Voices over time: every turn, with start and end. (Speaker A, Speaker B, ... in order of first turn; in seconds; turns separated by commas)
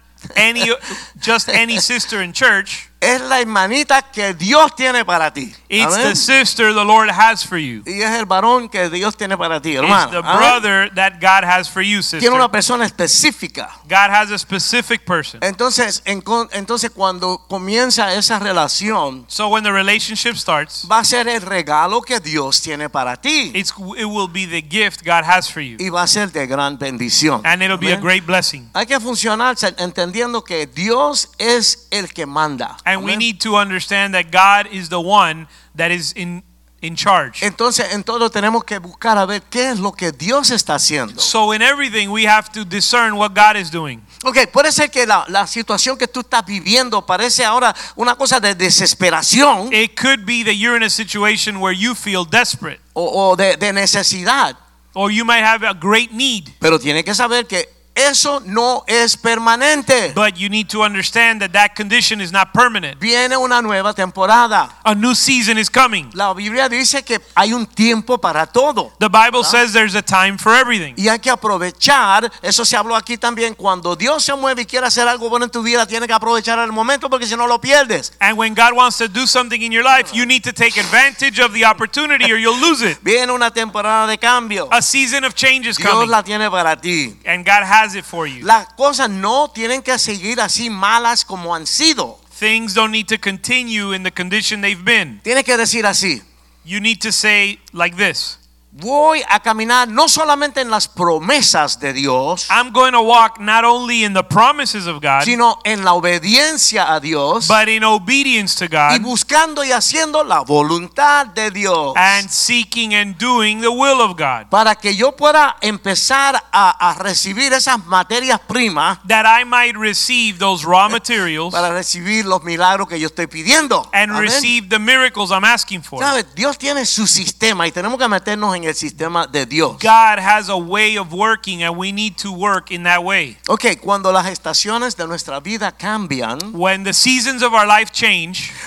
Speaker A: 0.3-2.9, Speaker B: 1.5-1.8, Speaker B: 3.0-6.3, Speaker A: 5.7-7.8, Speaker B: 7.8-10.6, Speaker A: 9.8-12.5, Speaker B: 12.2-13.7, Speaker A: 13.9-15.4, Speaker B: 15.4-19.3, Speaker A: 19.3-20.9, Speaker B: 20.8-23.6, Speaker A: 23.5-25.8, Speaker B: 25.8-28.1, Speaker A: 27.4-28.7, Speaker B: 28.7-33.3, Speaker A: 32.9-37.4, Speaker B: 37.4-41.3, Speaker A: 41.2-44.0, Speaker B: 44.2-49.8, Speaker A: 49.7-52.8, Speaker B: 53.0-54.6, Speaker A: 55.0-56.5, Speaker B: 56.6-60.2, Speaker A: 60.1-63.0, Speaker B: 63.0-64.7, Speaker A: 64.8-66.1, Speaker B: 66.1-69.6, Speaker A: 69.0-71.0, Speaker B: 71.0-78.1, Speaker A: 78.2-83.0, Speaker B: 83.0-84.7, Speaker A: 84.7-86.2, Speaker B: 85.8-87.2, Speaker A: 87.2-88.5, Speaker B: 88.4-92.2, Speaker A: 92.4-95.2, Speaker B: 95.2-96.2, Speaker A: 96.7-98.4, Speaker B: 98.7-102.5, Speaker A: 102.5-105.4, Speaker B: 105.2-107.5, Speaker A: 107.4-109.1, Speaker B: 108.9-112.2, Speaker A: 112.0-114.5, Speaker B: 114.5-119.0, Speaker A: 119.0-121.6, Speaker B: 121.5-124.5, Speaker A: 123.9-126.1, Speaker B: 126.0-129.8, Speaker A: 129.8-133.4, Speaker B: 133.5-136.5, Speaker A: 136.5-138.6